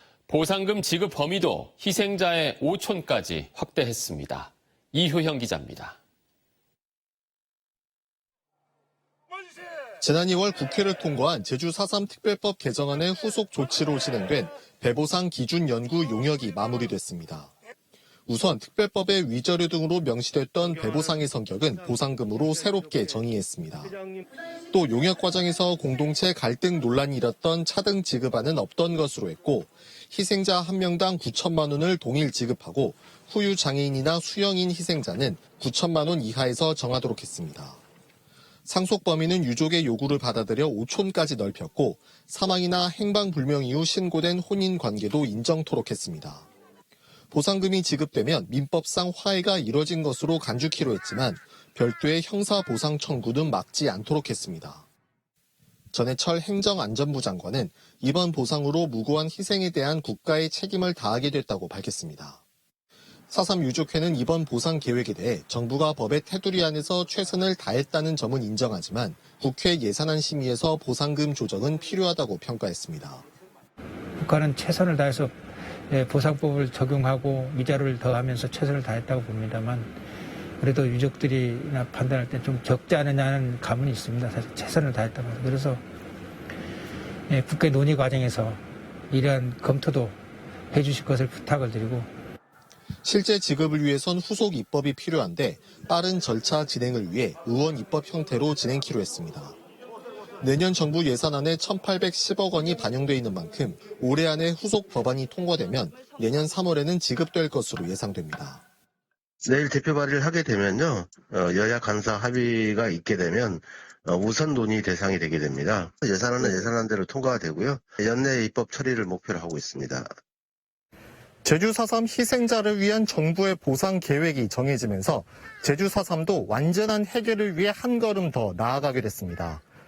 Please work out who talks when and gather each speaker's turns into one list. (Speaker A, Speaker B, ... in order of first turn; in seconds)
Speaker A: 0.3-6.0
Speaker B: 10.0-17.5, 18.3-23.9, 24.7-37.8, 38.6-46.5, 47.3-54.8, 55.9-62.4, 63.3-73.2, 93.0-99.6, 100.4-108.6, 121.4-129.6
Speaker C: 74.2-75.3, 75.9-79.9, 80.6-85.8, 87.3-90.2, 90.7-92.1
Speaker D: 109.4-120.1